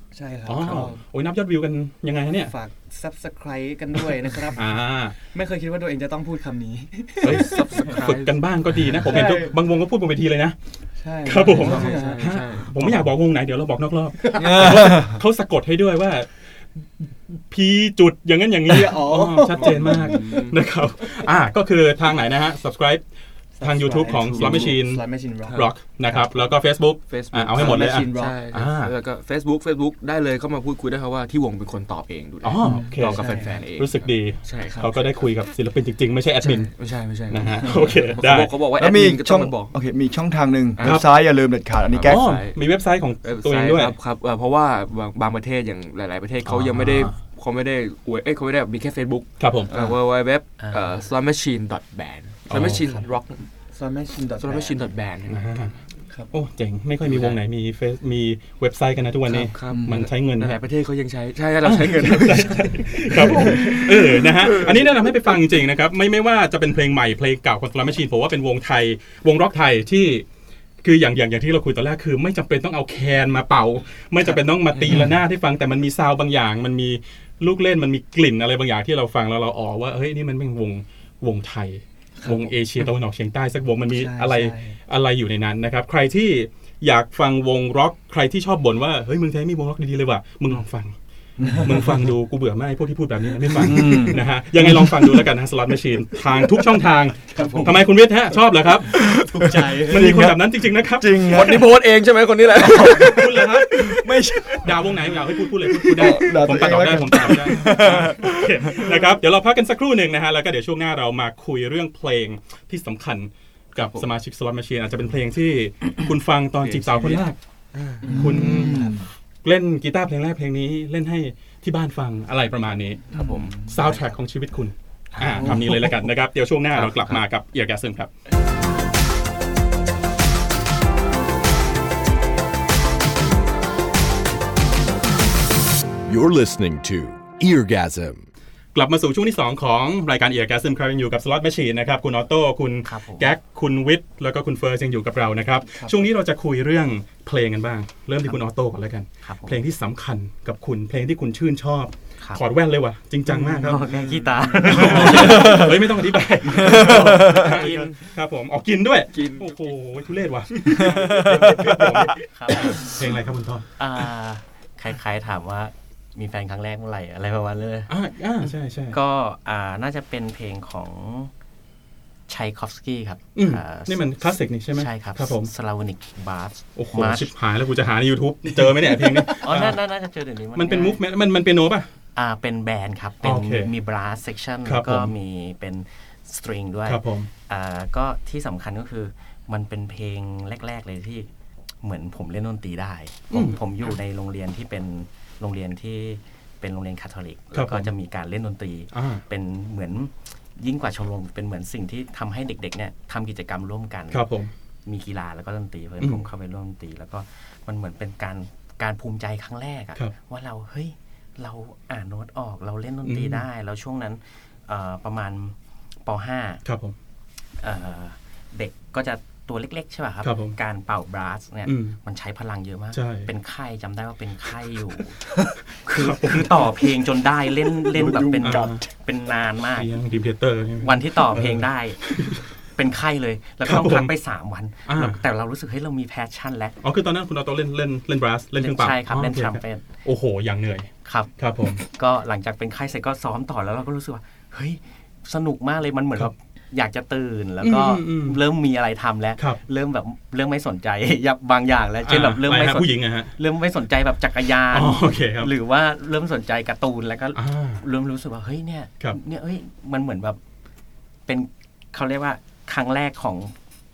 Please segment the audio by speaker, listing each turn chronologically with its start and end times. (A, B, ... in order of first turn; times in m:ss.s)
0:00.1-0:01.0 A
0:00.5-0:02.5 B
0:02.4-0:08.0 A
0:04.5-0:05.2 B
0:07.2-0:08.4 C
0:07.2-0:10.6 B
0:09.0-0:09.6 A
0:11.0-0:12.5 A
0:11.2-0:16.3 B
0:11.5-0:12.8 C
0:14.2-0:14.6 A
0:14.4-0:15.2 D
0:17.3-0:23.0 B
0:18.7-0:20.2 A
0:19.6-0:20.6 C
0:23.6-0:26.3 A
0:23.6-0:28.9 B
0:24.0-0:24.8 C
0:27.1-0:35.2 C
0:27.6-0:28.4 A
0:32.4-0:36.7 B
0:32.6-0:33.6 A
0:36.4-0:39.8 C
0:37.3-0:38.6 B
0:38.8-0:42.2 D
0:40.8-0:41.0 C
0:41.9-0:42.6 C
0:42.0-0:44.0 B
0:43.2-0:53.5 C
0:46.5-0:47.1 B
0:49.4-0:49.7 B
0:49.7-0:50.0 D
0:50.6-0:51.0 E
0:52.5-0:52.9 B
0:53.7-0:54.8 A
0:54.4-0:55.5 C
0:55.3-0:55.8 B
0:56.3-1:00.6 B
0:57.0-0:57.4 C
0:59.3-1:04.9 C
0:59.7-1:00.0 D
1:01.6-1:10.2 B
1:10.8-1:31.0 B
1:22.2-1:22.5 A
1:23.9-1:24.8 A
1:31.4-1:32.1 D
1:31.6-1:41.3 B
1:33.6-1:35.2 D
1:37.3-1:37.8 A
1:37.4-1:37.6 C
1:39.2-1:41.7 D
1:39.2-1:40.1 A
1:41.2-1:44.9 C
1:42.6-1:43.1 D
1:42.7-1:44.0 B
1:44.0-1:44.5 D
1:44.6-1:57.4 B
1:45.7-1:46.4 C
1:45.9-1:48.9 D
1:47.1-1:47.9 C
1:56.6-1:58.1 C
1:58.0-1:59.0 A
1:58.1-1:59.1 D
1:58.1-1:58.9 B
1:59.4-2:08.1 B
2:03.1-2:03.6 C
2:03.2-2:03.6 D
2:03.8-2:04.2 A
2:06.8-2:07.2 C
2:16.1-2:18.2 F
2:18.7-2:34.0 B
2:22.8-2:23.3 E
2:25.7-2:26.0 A
2:29.2-2:29.7 E
2:33.3-2:35.8 E
2:33.6-2:35.2 C
2:34.6-2:43.6 B
2:35.2-2:35.6 D
2:36.5-2:37.6 D
2:36.6-2:38.1 C
2:39.1-2:39.8 C
2:40.5-2:42.1 C
2:40.8-2:42.0 D
2:42.3-2:43.2 E
2:43.8-2:47.9 E
2:47.9-2:49.0 B
2:48.9-2:51.3 E
2:52.3-2:57.3 E
2:53.4-2:55.5 B
2:56.8-2:59.8 B
2:59.0-3:01.0 E
3:00.6-3:01.9 B
3:02.2-3:11.3 E
3:03.2-3:03.7 B
3:04.6-3:05.1 B
3:06.9-3:07.3 B
3:11.8-3:24.3 E
3:13.3-3:13.6 B
3:17.5-3:17.9 B
3:18.9-3:19.2 B
3:24.1-3:24.5 B
3:24.9-3:36.6 E
3:26.0-3:26.2 B
3:33.0-3:33.4 B
3:36.6-3:37.0 B
3:37.6-3:49.9 E
3:40.2-3:40.6 B
3:41.7-3:42.0 B
3:42.9-3:43.3 B
3:45.9-3:46.9 B
3:47.9-3:48.8 B
3:48.1-3:48.6 C
3:49.8-3:52.4 B
3:50.8-3:56.8 E
3:53.6-3:54.1 B
3:54.9-3:55.2 B
3:56.8-4:01.8 B
3:58.6-3:59.9 E
4:01.0-4:20.4 E
4:07.6-4:08.4 B
4:12.0-4:13.3 B
4:14.7-4:15.5 B
4:17.4-4:17.8 B
4:21.3-4:23.5 E